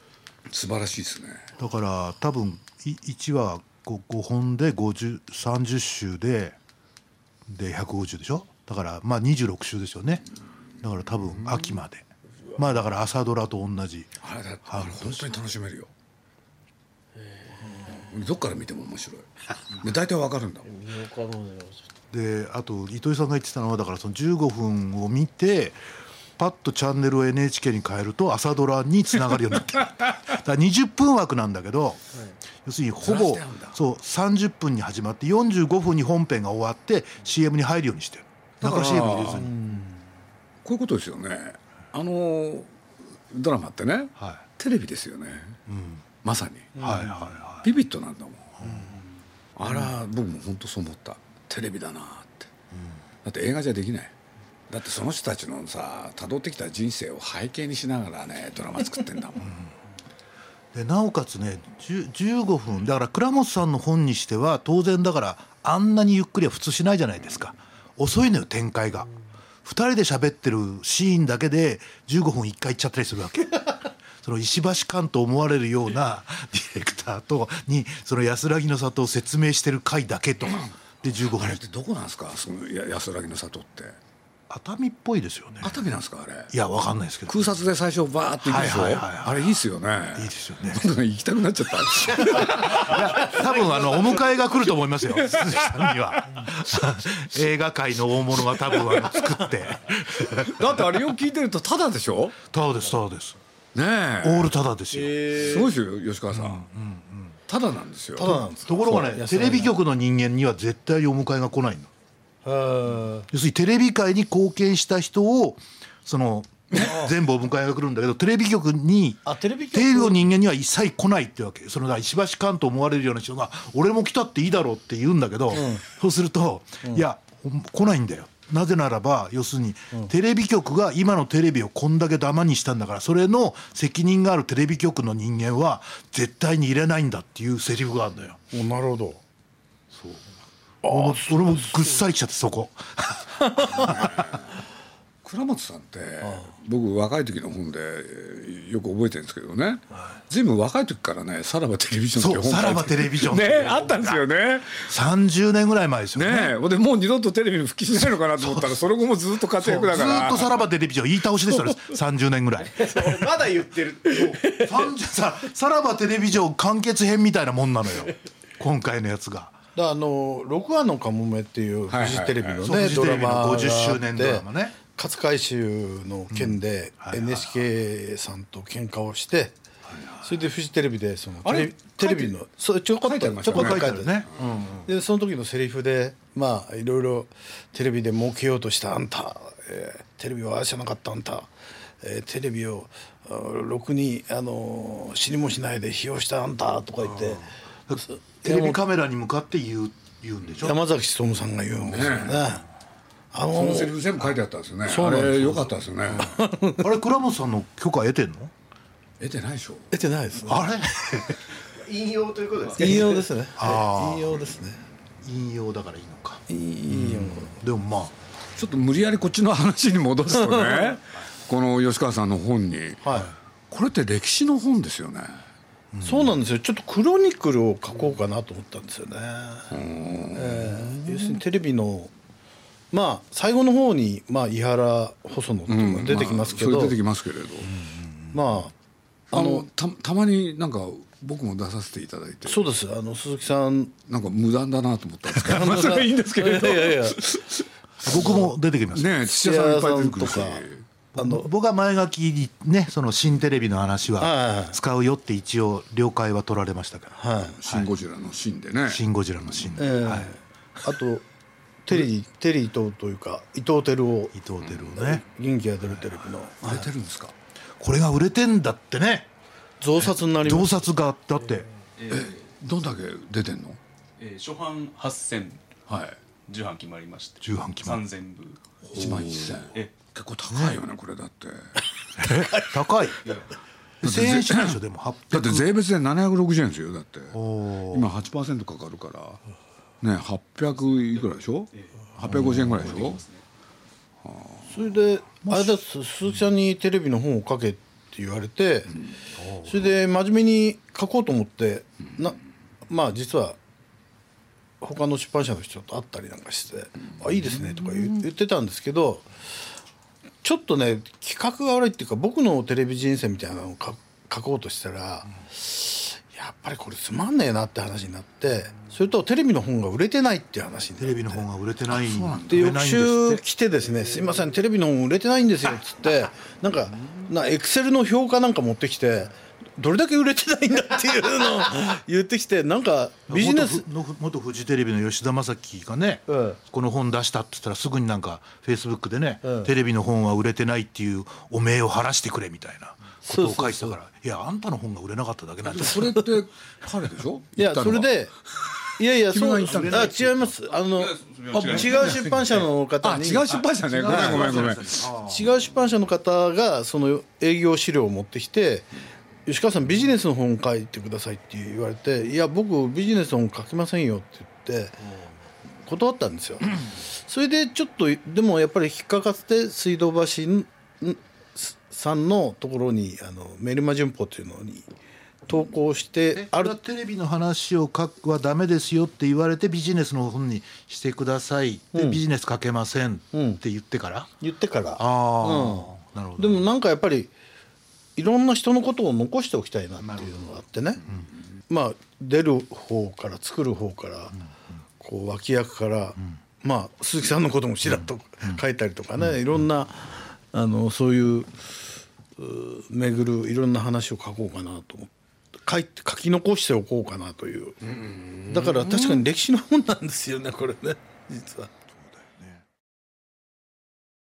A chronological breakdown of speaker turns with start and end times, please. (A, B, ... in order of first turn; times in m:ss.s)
0:00.5-0:01.5 A
0:01.6-0:06.6 B
0:07.5-0:10.2 B
0:10.8-0:12.0 B
0:12.6-0:14.1 B
0:14.2-0:15.9 A
0:14.7-0:15.3 B
0:17.2-0:17.9 C
0:17.9-0:20.7 A
0:20.7-0:21.9 C
0:22.1-0:25.8 B
0:26.4-0:32.0 B
0:32.6-0:39.8 B
0:33.0-0:33.8 A
0:38.6-0:39.5 A
0:40.6-0:42.7 A
0:43.3-0:45.6 A
0:45.7-0:46.0 B
0:46.2-0:46.9 A
0:46.8-0:47.2 D
0:46.8-0:47.7 B
0:47.6-0:48.8 A
0:48.6-0:48.9 B
0:49.6-0:52.5 A
0:53.2-0:54.1 A
0:54.7-0:59.5 A
1:00.7-1:09.1 B
1:09.6-1:21.6 B
1:21.3-1:24.0 A
1:24.5-1:25.8 B
1:25.6-1:26.5 A
1:26.5-1:27.5 B
1:27.3-1:33.4 A
1:28.4-1:29.6 B
1:30.1-1:30.9 B
1:32.1-1:40.9 B
1:35.3-1:35.7 A
1:40.3-1:42.4 A
1:42.5-1:43.4 B
1:43.8-1:44.5 A
1:44.2-1:45.4 B
1:45.0-1:45.7 C
1:45.3-1:46.7 A
1:46.3-1:47.4 B
1:47.5-1:48.4 A
1:48.2-1:49.8 D
1:48.2-1:51.9 B
1:52.4-1:53.3 D
1:53.3-2:18.4 B
1:59.3-2:00.2 D
2:05.6-2:05.8 D
2:18.5-2:19.2 D
2:19.9-2:20.2 B
2:20.8-2:21.9 D
2:20.8-2:24.1 B
2:23.7-2:24.5 A
2:25.2-2:34.9 A
2:26.2-2:26.5 D
2:32.2-2:34.2 B
2:34.8-2:36.6 B
2:36.2-2:40.6 A
2:38.4-2:38.8 B
2:39.6-2:43.3 B
2:42.7-2:44.9 C
2:44.1-2:49.6 B
2:49.8-2:59.6 D
2:51.9-2:52.7 A
2:52.6-2:54.8 B
2:56.3-2:57.4 B
3:00.2-3:04.2 D
3:01.4-3:02.4 A
3:03.0-3:04.0 A
3:03.5-3:04.9 B
3:04.9-3:11.5 D
3:12.0-3:18.8 D
3:17.1-3:20.8 B
3:20.6-3:22.6 D
3:21.9-3:22.5 A
3:23.3-3:24.0 D
3:23.5-3:26.3 A
3:24.8-3:26.9 D
3:26.8-3:28.5 B
3:29.2-3:29.9 A
3:29.9-3:30.8 D
3:30.4-3:31.4 B
3:31.8-3:33.2 C
3:32.8-3:34.8 D
3:33.6-3:34.3 B
3:35.2-3:38.2 B
3:36.5-3:37.6 D
3:38.6-3:43.0 A
3:40.3-3:41.0 D
3:43.0-3:43.3 D
3:43.7-3:45.4 A
3:45.9-3:46.3 B
3:46.0-3:49.7 D
3:49.7-3:51.4 A
3:50.3-3:52.1 D
3:52.9-3:57.0 D
3:55.7-3:57.7 A
3:57.8-3:58.4 B
3:58.3-3:58.7 D
3:59.3-3:59.7 D
3:59.3-4:02.6 A
4:02.5-4:03.9 D
4:04.1-4:10.8 A
4:05.4-4:07.2 D
4:08.0-4:09.1 B
4:09.3-4:10.6 D
4:11.2-4:17.9 B
4:11.2-4:11.5 D
4:14.2-4:14.8 D
4:17.2-4:17.6 D
4:17.6-4:19.0 A
4:18.9-4:20.3 B
4:19.8-4:21.3 D
4:21.8-4:24.4 D
4:24.3-4:25.2 B
4:25.0-4:26.6 D
4:26.6-4:27.3 A
4:27.8-4:29.3 B
4:29.8-4:30.8 D
4:30.0-4:31.7 B
4:32.0-4:32.5 E
4:32.1-4:33.8 A
4:34.2-4:35.6 E
4:35.9-4:36.2 A
4:36.5-4:38.6 E
4:37.4-4:38.0 B
4:38.9-4:41.8 A
4:40.5-4:40.8 B
4:42.2-4:43.2 B
4:44.0-4:45.7 B
4:44.0-4:44.8 A
4:45.3-4:47.4 A
4:47.3-4:48.1 B
4:47.9-4:49.4 A
4:50.0-4:53.2 A
4:52.3-4:52.8 B
4:52.7-4:53.4 E
4:54.2-4:54.6 A
4:54.7-4:59.0 D
4:55.4-4:55.8 B
4:59.4-4:59.9 B
4:59.6-5:03.6 D
5:04.8-5:09.3 D
5:10.4-5:21.4 D
5:21.0-5:23.4 B
5:21.9-5:22.7 A
5:22.5-5:33.8 D
5:33.3-5:46.3 B
5:36.3-5:36.6 D
5:39.4-5:39.7 D
5:43.3-5:44.0 D
5:45.6-5:48.2 A
5:47.6-5:48.3 D
5:49.0-5:53.5 D
5:49.2-5:50.4 A
5:49.6-5:50.4 B
5:50.9-5:52.4 E
5:51.8-5:52.3 A
5:53.0-5:55.1 A
5:53.7-5:55.5 B
5:54.1-5:58.9 D
5:59.5-6:05.1 D
6:05.9-6:14.9 D
6:15.5-6:16.8 D
6:16.3-6:24.3 B
6:21.9-6:22.2 D
6:23.3-6:23.6 D
6:24.4-6:27.3 D
6:25.0-6:26.7 B
6:28.2-6:31.0 D
6:30.0-6:30.4 B
6:31.7-6:34.4 D
6:35.0-6:41.7 D
6:42.4-6:47.9 D
6:48.2-6:49.0 A
6:48.4-6:51.7 D
6:52.0-6:52.6 B